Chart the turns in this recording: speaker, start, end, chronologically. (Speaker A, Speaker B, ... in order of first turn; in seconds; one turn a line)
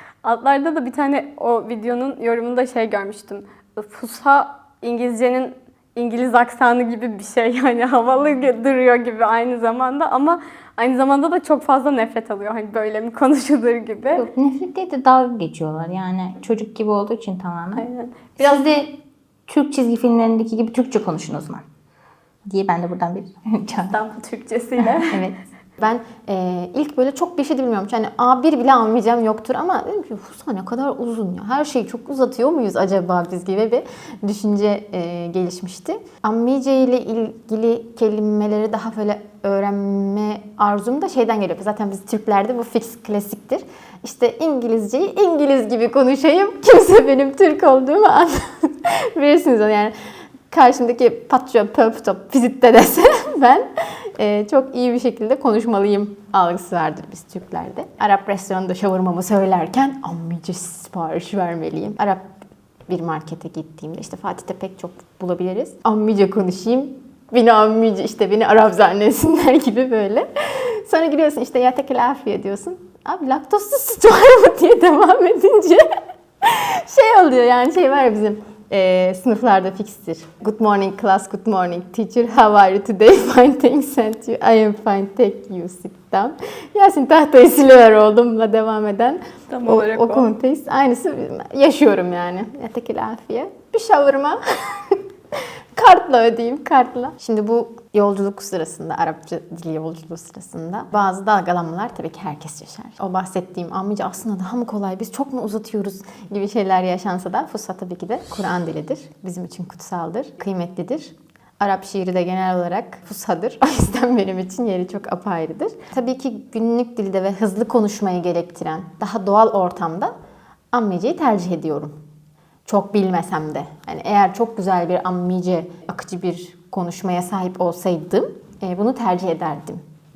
Speaker A: 0.2-14.2
Speaker B: 14.1-21.6
Speaker A: 17.8-18.6
Speaker B: 22.4-23.9
Speaker A: 23.9-25.2
Speaker B: 24.8-25.3
Speaker C: 25.8-50.0
Speaker C: 50.5-62.2
Speaker C: 62.9-75.8
Speaker C: 76.4-95.0
Speaker A: 89.5-90.3
Speaker C: 95.7-120.1
Speaker C: 120.7-122.0
Speaker C: 122.7-129.8